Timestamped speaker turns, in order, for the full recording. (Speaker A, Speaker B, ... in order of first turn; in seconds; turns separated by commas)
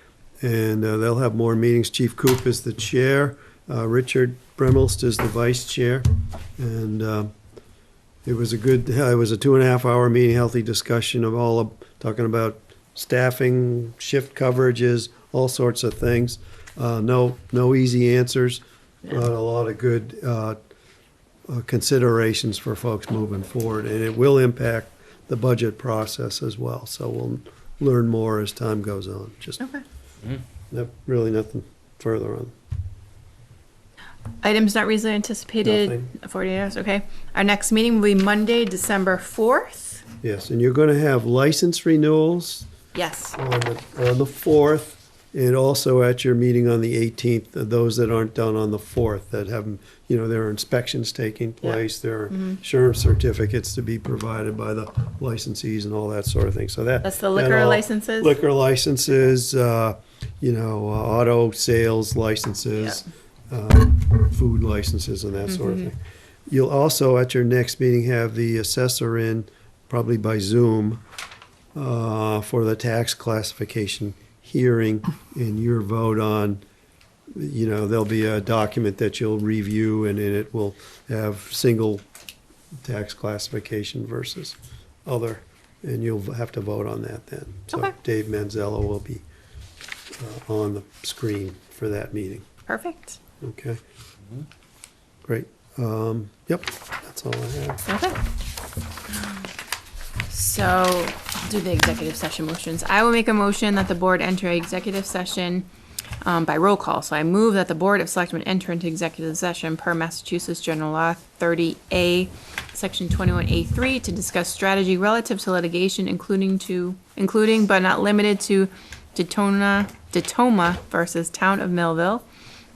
Speaker A: 0.4-7.3, Speaker A: 8.2-20.6, Speaker A: 21.5-29.6, Speaker A: 30.7-32.5, Speaker B: 34.4-40.0, Speaker A: 35.6-36.1, Speaker A: 40.2-42.7, Speaker B: 42.9-43.4, Speaker A: 43.3-71.0, Speaker B: 57.0-58.4, Speaker B: 65.5-65.8, Speaker A: 71.8-76.6, Speaker A: 77.3-82.0, Speaker A: 82.8-89.2, Speaker A: 90.2-92.5, Speaker B: 92.7-93.2, Speaker A: 93.4-93.8, Speaker A: 95.2-97.8, Speaker B: 97.8-98.2, Speaker B: 100.3-105.7, Speaker B: 106.2-122.2